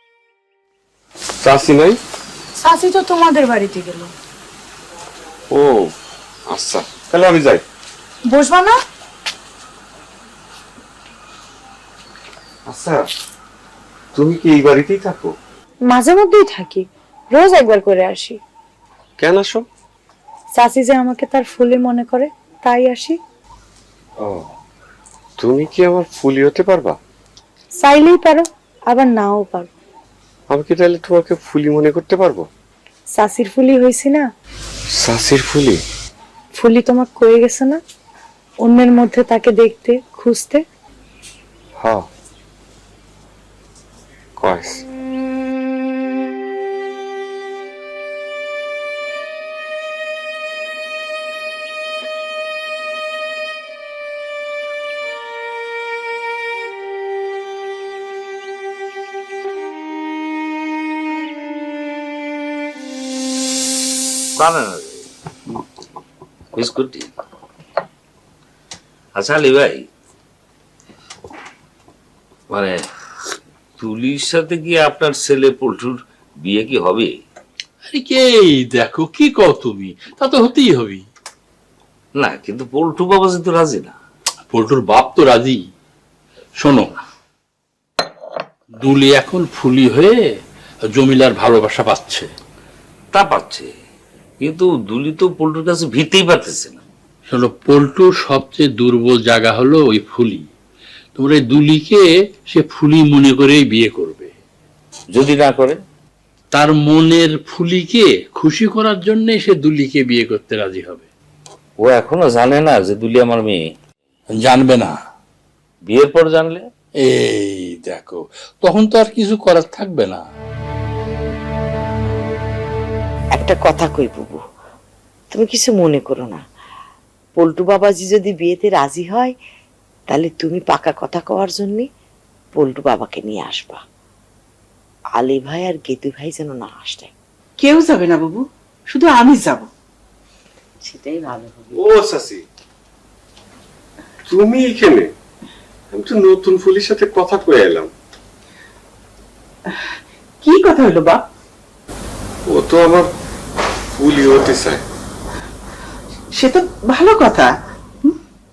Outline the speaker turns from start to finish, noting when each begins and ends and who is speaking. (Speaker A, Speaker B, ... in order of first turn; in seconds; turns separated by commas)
Speaker A: 1.4-2.0, Speaker B: 2.6-4.1, Speaker A: 5.5-5.9, Speaker A: 6.5-7.6, Speaker B: 8.3-8.8, Speaker A: 12.7-13.1, Speaker A: 14.1-15.3, Speaker B: 15.9-18.4, Speaker A: 19.2-19.7, Speaker B: 20.6-23.2, Speaker A: 24.2-24.5, Speaker A: 25.4-27.0, Speaker B: 27.8-29.7, Speaker A: 30.5-32.5, Speaker B: 33.2-34.3, Speaker A: 35.0-35.8, Speaker B: 36.6-37.8, Speaker B: 38.6-40.6, Speaker A: 41.8-42.1, Speaker A: 44.4-44.9, Speaker C: 64.4-65.0, Speaker C: 66.5-67.1, Speaker C: 69.2-69.8, Speaker C: 72.5-72.8, Speaker C: 73.8-77.2, Speaker D: 77.9-81.0, Speaker C: 82.2-84.0, Speaker D: 84.5-85.7, Speaker D: 86.6-87.0, Speaker D: 88.8-90.3, Speaker D: 90.9-92.3, Speaker C: 93.1-93.7, Speaker C: 94.4-96.8, Speaker D: 97.3-100.5, Speaker D: 101.2-104.3, Speaker C: 105.1-105.8, Speaker D: 106.5-111.1, Speaker C: 111.8-113.6, Speaker D: 114.4-115.0, Speaker C: 115.9-116.7, Speaker D: 117.0-120.2, Speaker E: 123.3-124.4, Speaker E: 125.3-126.4, Speaker E: 127.4-129.3, Speaker E: 130.1-131.9, Speaker E: 132.6-133.8, Speaker E: 135.2-137.1, Speaker F: 137.6-138.4, Speaker F: 138.9-139.7, Speaker E: 140.8-141.8, Speaker A: 141.7-142.4, Speaker A: 144.3-145.1, Speaker A: 145.9-147.9, Speaker F: 150.4-151.2, Speaker A: 152.5-153.1, Speaker A: 153.9-154.8, Speaker F: 156.4-157.5